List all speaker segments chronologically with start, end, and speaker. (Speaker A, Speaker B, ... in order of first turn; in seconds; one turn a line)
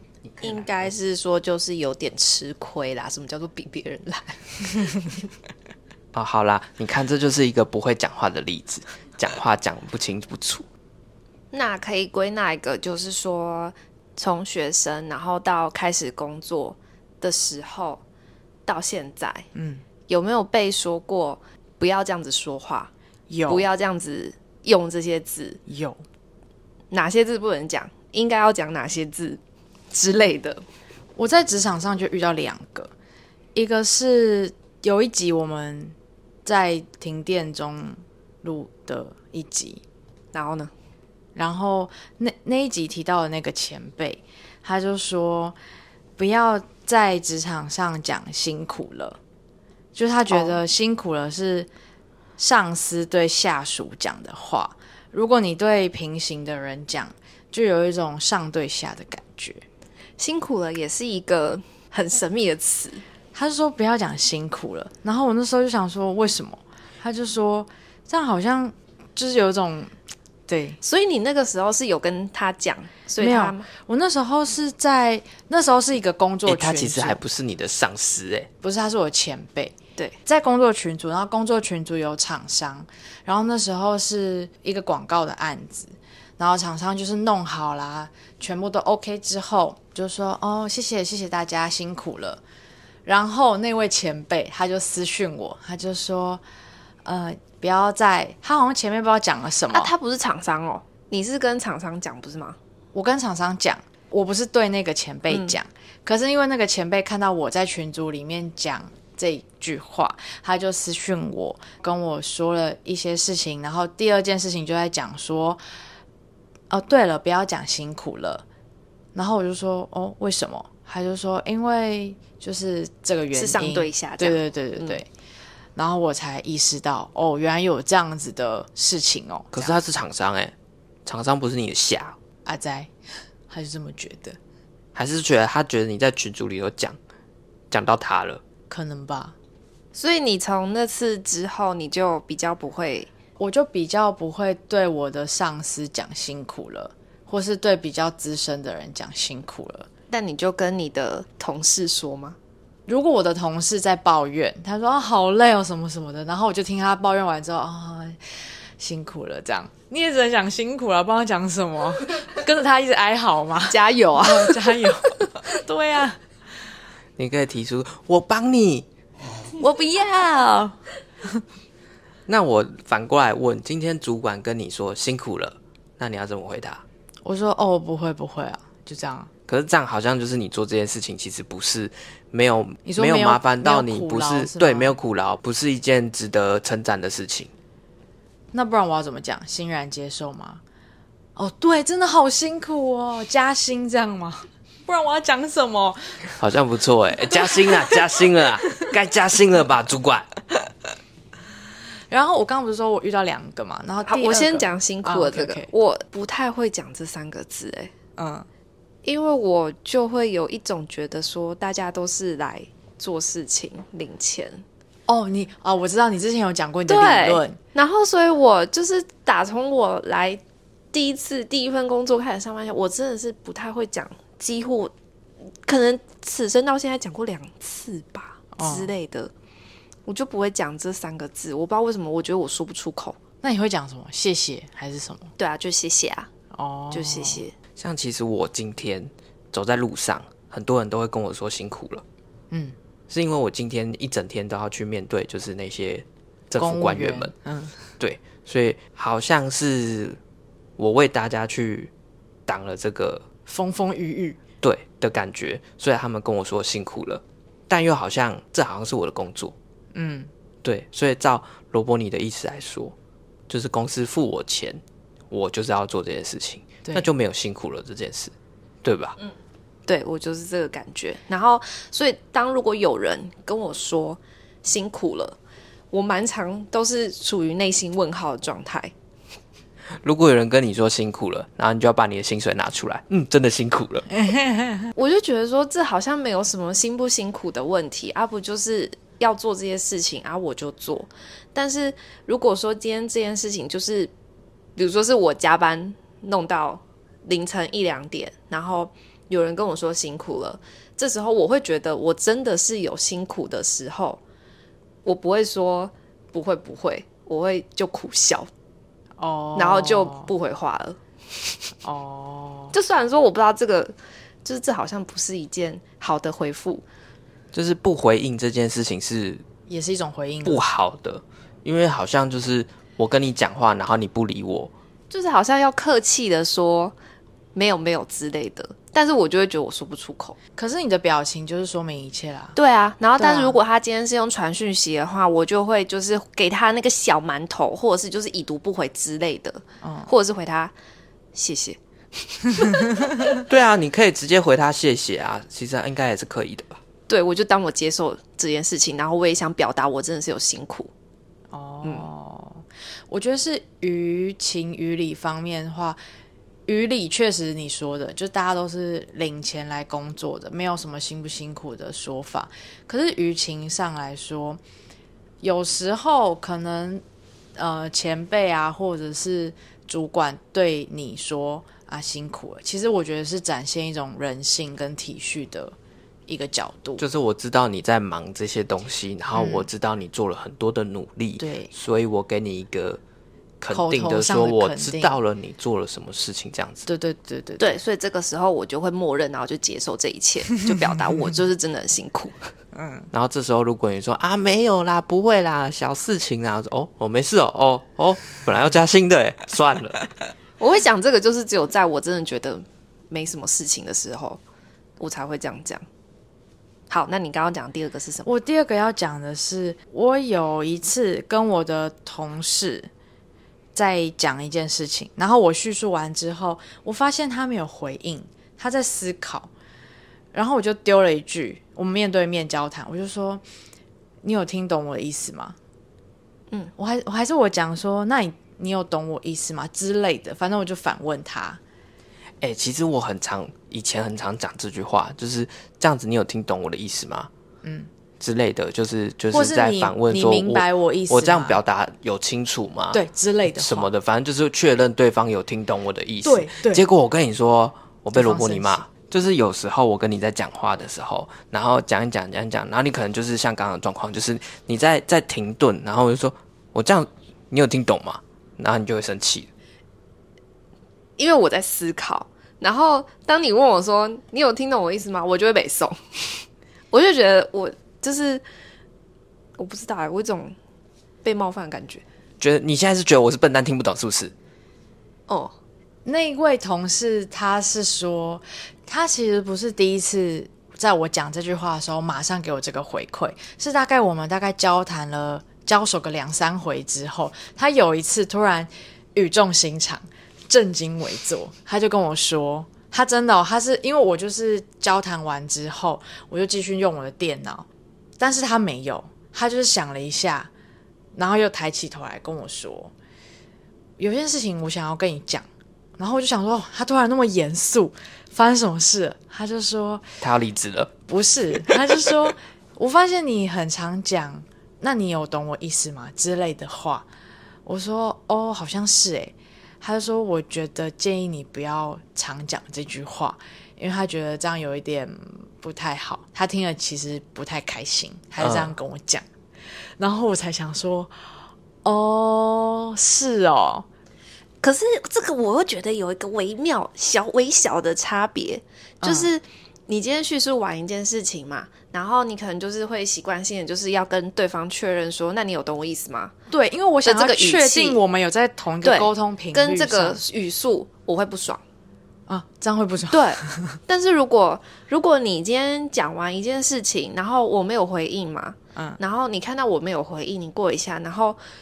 Speaker A: 0.2-0.9
Speaker B: 0.4-5.2
Speaker A: 6.1-10.7
Speaker B: 11.5-18.0
Speaker B: 18.7-19.5
Speaker C: 19.6-19.9
Speaker B: 20.1-22.9
Speaker C: 23.3-23.7
Speaker B: 23.5-25.6
Speaker C: 25.7-26.0
Speaker B: 26.9-30.6
Speaker C: 31.2-32.9
Speaker C: 33.5-39.8
Speaker B: 40.3-40.7
Speaker C: 41.4-45.6
Speaker C: 46.2-49.2
Speaker C: 50.0-51.7
Speaker B: 50.3-50.6
Speaker C: 52.4-59.6
Speaker B: 60.2-63.0
Speaker C: 63.3-69.9
Speaker C: 70.5-70.8
Speaker B: 70.8-73.7
Speaker C: 73.2-77.2
Speaker A: 76.5-78.5
Speaker C: 78.6-79.8
Speaker C: 80.3-92.4
Speaker C: 93.1-96.4
Speaker C: 97.0-99.9
Speaker B: 99.7-102.6
Speaker C: 102.9-115.6
Speaker B: 105.3-105.6
Speaker C: 116.7-118.5
Speaker C: 119.2-125.1
Speaker B: 123.3-125.0
Speaker C: 125.8-129.8
Speaker A: 129.5-130.5
Speaker A: 131.1-132.2
Speaker C: 132.4-132.9
Speaker C: 133.5-134.4
Speaker A: 134.9-137.0
Speaker A: 137.7-138.4
Speaker C: 138.7-139.3
Speaker B: 139.9-143.1
Speaker C: 143.4-149.9
Speaker B: 150.1-152.4
Speaker C: 152.9-158.2
Speaker C: 158.8-166.2
Speaker B: 163.7-165.3
Speaker A: 167.2-168.9
Speaker B: 169.6-170.7
Speaker C: 169.6-170.7
Speaker A: 172.3-176.8
Speaker C: 177.2-179.3
Speaker A: 179.5-187.5
Speaker C: 182.9-184.9
Speaker C: 188.5-190.6
Speaker C: 191.4-196.1
Speaker A: 196.4-200.3
Speaker C: 197.3-198.1
Speaker C: 202.1-205.7
Speaker B: 204.1-207.9
Speaker C: 208.2-208.5
Speaker B: 209.0-214.6
Speaker C: 215.1-217.6
Speaker B: 216.9-220.4
Speaker B: 220.9-224.9
Speaker B: 225.7-229.3
Speaker C: 228.6-228.9
Speaker B: 230.1-233.2
Speaker C: 233.4-235.3
Speaker B: 235.4-236.3
Speaker C: 236.5-237.4
Speaker B: 236.9-237.5
Speaker A: 237.8-242.0
Speaker C: 242.5-242.8
Speaker A: 243.1-247.3
Speaker C: 246.6-247.8
Speaker A: 248.0-250.2
Speaker A: 250.8-251.9
Speaker A: 252.5-253.2
Speaker C: 253.5-254.4
Speaker A: 254.6-259.6
Speaker C: 259.9-260.3
Speaker A: 260.6-262.9
Speaker A: 263.5-268.3
Speaker A: 268.8-269.2
Speaker B: 269.9-275.4
Speaker B: 275.9-278.9
Speaker A: 280.0-284.1
Speaker C: 284.1-284.9
Speaker B: 284.9-294.1
Speaker B: 294.8-304.2
Speaker B: 305.1-308.5
Speaker C: 309.2-310.3
Speaker B: 309.6-311.6
Speaker C: 311.8-312.8
Speaker B: 312.7-316.8
Speaker A: 317.5-319.4
Speaker C: 319.7-320.6
Speaker A: 320.4-324.7
Speaker B: 325.1-326.9
Speaker B: 327.5-330.4
Speaker C: 330.6-332.6
Speaker B: 332.6-340.7
Speaker C: 333.2-333.6
Speaker C: 339.8-340.1
Speaker B: 341.3-343.3
Speaker C: 342.8-343.3
Speaker A: 343.4-346.8
Speaker B: 347.1-350.9
Speaker C: 351.5-356.0
Speaker C: 356.7-364.6
Speaker C: 365.4-367.0
Speaker C: 367.6-375.8
Speaker C: 376.3-377.0
Speaker A: 377.0-383.0
Speaker C: 379.4-379.7
Speaker C: 381.4-381.7
Speaker A: 383.6-386.9
Speaker C: 383.7-385.2
Speaker C: 386.9-387.8
Speaker B: 387.6-392.4
Speaker C: 392.7-393.1
Speaker A: 393.1-400.1
Speaker B: 400.6-404.4
Speaker B: 405.0-405.9
Speaker B: 406.9-408.3
Speaker C: 408.2-412.9
Speaker C: 413.8-419.5
Speaker C: 420.3-423.4
Speaker C: 424.2-425.6
Speaker C: 426.8-431.6
Speaker A: 432.4-437.3
Speaker C: 437.6-437.9
Speaker A: 438.2-459.5
Speaker C: 439.3-441.6
Speaker C: 442.9-443.9
Speaker C: 446.2-446.8
Speaker C: 448.1-448.9
Speaker B: 461.2-468.4
Speaker B: 469.6-470.6
Speaker B: 471.2-472.0
Speaker A: 472.4-474.3
Speaker B: 475.3-475.5
Speaker C: 476.1-497.7
Speaker C: 498.2-500.5
Speaker C: 501.1-502.9
Speaker C: 504.0-505.5
Speaker C: 506.0-510.1
Speaker A: 510.2-510.9
Speaker C: 511.1-517.1
Speaker C: 517.7-529.2
Speaker A: 528.4-528.7
Speaker C: 530.0-531.1
Speaker C: 531.8-533.9
Speaker B: 534.6-546.3
Speaker C: 539.0-539.3
Speaker C: 546.5-550.2
Speaker B: 547.0-548.0
Speaker B: 548.8-551.6
Speaker C: 552.3-553.8
Speaker B: 553.1-561.4